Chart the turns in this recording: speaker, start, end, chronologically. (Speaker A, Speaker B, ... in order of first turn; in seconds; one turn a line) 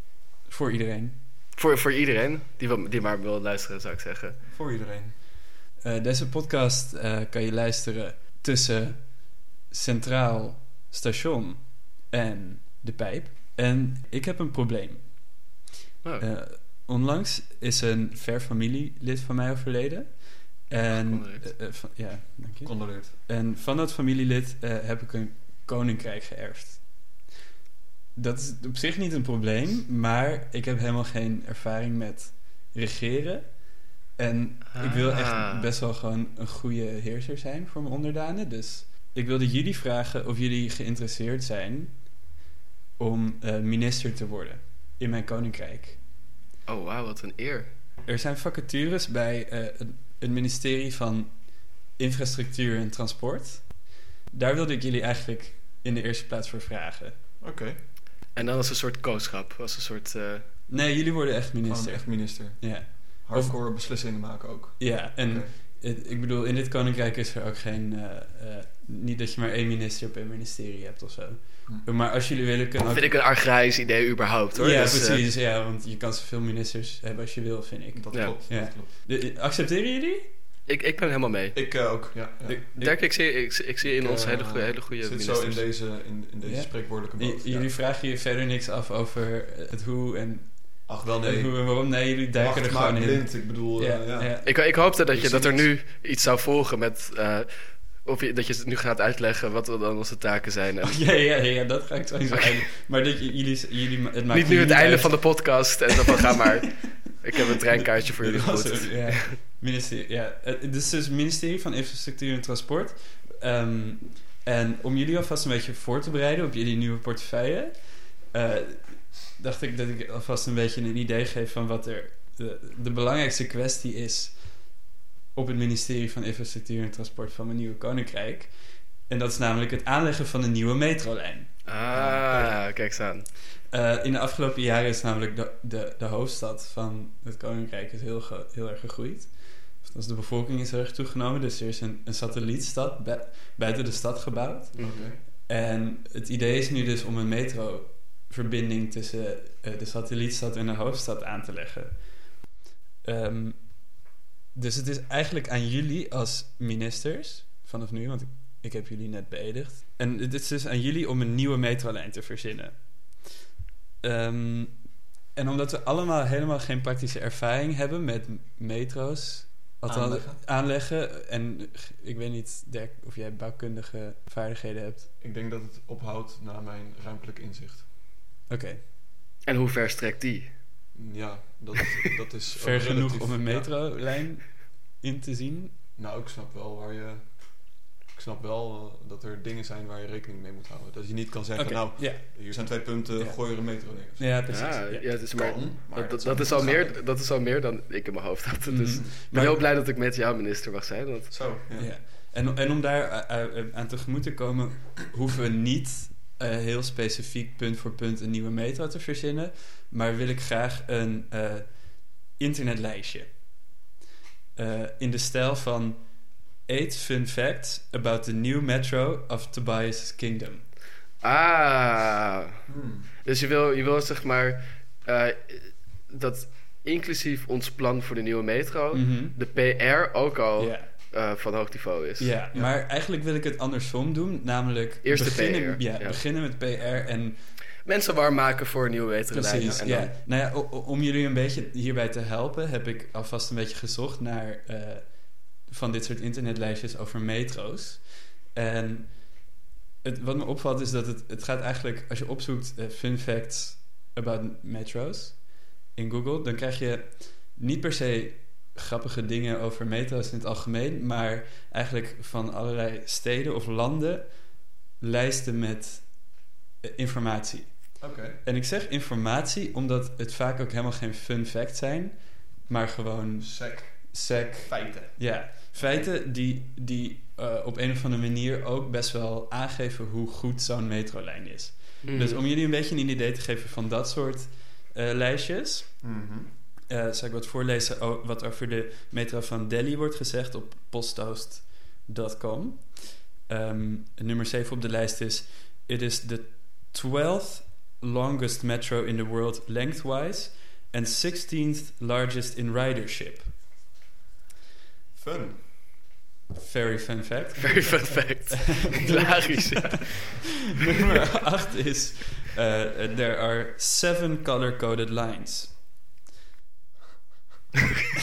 Speaker A: 0.5-1.1
Speaker B: 1.5-4.4
Speaker C: 4.5-5.2
Speaker A: 5.8-15.5
Speaker A: 16.2-27.1
Speaker B: 20.9-21.5
Speaker C: 22.6-23.1
Speaker A: 28.1-42.1
Speaker B: 34.7-35.7
Speaker A: 43.0-46.0
Speaker B: 46.7-47.7
Speaker A: 48.1-57.2
Speaker C: 57.4-57.8
Speaker B: 58.3-60.5
Speaker A: 60.7-63.6
Speaker C: 61.6-65.5
Speaker A: 64.8-73.2
Speaker B: 72.9-75.2
Speaker A: 74.5-80.3
Speaker C: 77.9-78.9
Speaker B: 80.7-81.6
Speaker C: 81.5-83.1
Speaker A: 82.5-82.9
Speaker B: 82.7-85.7
Speaker C: 84.0-87.7
Speaker A: 86.4-94.9
Speaker C: 90.9-94.5
Speaker B: 94.4-101.4
Speaker C: 95.1-95.7
Speaker A: 100.8-105.8
Speaker B: 102.3-102.7
Speaker B: 104.3-109.4
Speaker A: 107.8-131.5
Speaker B: 131.7-133.3
Speaker C: 131.9-132.5
Speaker A: 133.7-152.5
Speaker B: 144.8-145.2
Speaker C: 144.8-145.2
Speaker A: 153.0-163.3
Speaker A: 164.0-175.1
Speaker C: 169.8-170.4
Speaker C: 175.2-177.8
Speaker A: 178.5-178.8
Speaker B: 179.4-180.5
Speaker C: 180.9-183.8
Speaker A: 182.6-185.8
Speaker C: 186.0-194.5
Speaker A: 191.6-195.5
Speaker B: 194.5-201.5
Speaker C: 195.3-197.0
Speaker A: 198.7-199.7
Speaker C: 201.3-202.0
Speaker A: 201.8-213.3
Speaker A: 214.6-220.7
Speaker B: 221.2-222.5
Speaker C: 222.7-223.1
Speaker B: 223.2-232.3
Speaker A: 228.9-229.4
Speaker A: 230.6-230.9
Speaker A: 232.2-237.4
Speaker B: 235.0-236.2
Speaker B: 237.8-240.1
Speaker A: 239.3-286.0
Speaker C: 239.6-239.8
Speaker C: 268.0-268.4
Speaker C: 273.4-276.1
Speaker B: 282.0-282.4
Speaker C: 286.0-286.5
Speaker A: 286.9-303.5
Speaker C: 305.1-305.8
Speaker A: 306.6-310.0
Speaker B: 307.6-311.0
Speaker A: 310.9-315.8